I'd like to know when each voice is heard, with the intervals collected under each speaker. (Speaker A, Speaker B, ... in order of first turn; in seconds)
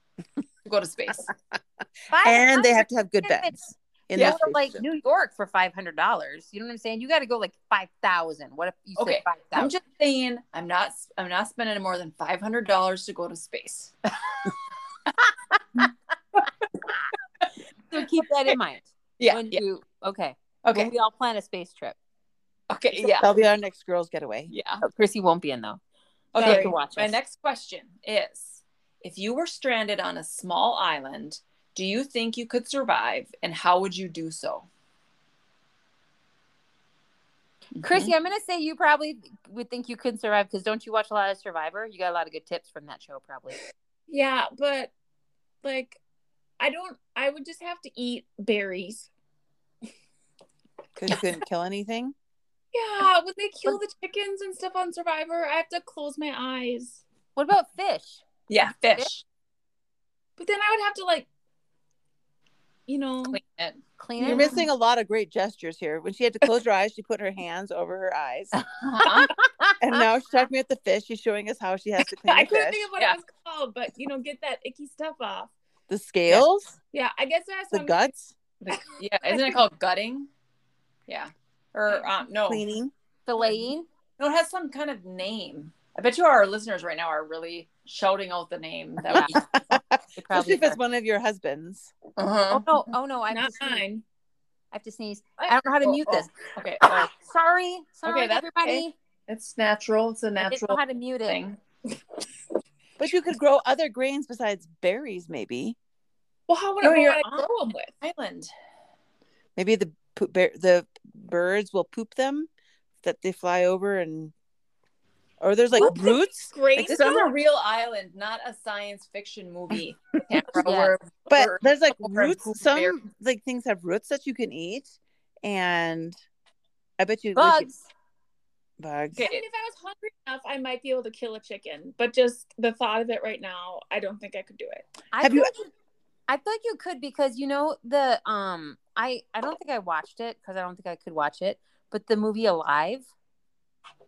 Speaker A: 0.6-1.3, 4.1-4.4, 9.0-14.4, 19.2-19.6, 20.6-20.9, 22.7-23.3, 24.5-24.8, 26.3-34.7, 37.7-38.1, 58.5-59.2, 63.3-63.8, 69.0-69.3, 78.7-80.3, 81.1-82.6, 84.2-89.4, 92.2-92.7, 95.4-97.1, 98.0-101.6, 106.8-107.4, 108.0-108.5, 116.8-123.0, 129.2-129.4
Speaker B: 2.1-3.6, 4.3-9.7, 17.9-21.9, 24.8-25.8, 26.4-27.2, 37.8-43.6, 57.4-58.2, 64.0-64.5, 68.9-69.8, 83.3-83.8, 89.1-89.4, 90.2-90.8, 92.5-93.8, 94.7-96.3, 96.8-98.9, 100.4-101.4, 120.6-121.0, 127.3-127.8, 135.1-135.7, 136.3-143.1
Speaker C: 2.2-4.8, 22.9-24.5, 51.0-52.1, 64.2-68.5, 69.8-72.8, 75.9-76.8, 77.7-78.3, 82.5-82.9, 89.2-91.9, 103.0-105.8, 109.5-112.5, 113.0-114.3, 115.4-117.0, 121.3-124.9, 125.4-126.2, 127.0-127.7, 128.8-129.2, 135.2-135.5
Speaker D: 26.4-26.7, 44.1-44.9, 45.6-46.0, 46.6-49.1, 52.7-57.0, 60.4-61.3, 62.9-63.4, 64.2-64.6, 72.2-75.5, 76.9-78.0, 78.7-79.6, 93.3-94.0, 106.5-107.9, 115.7-117.3, 129.2-134.9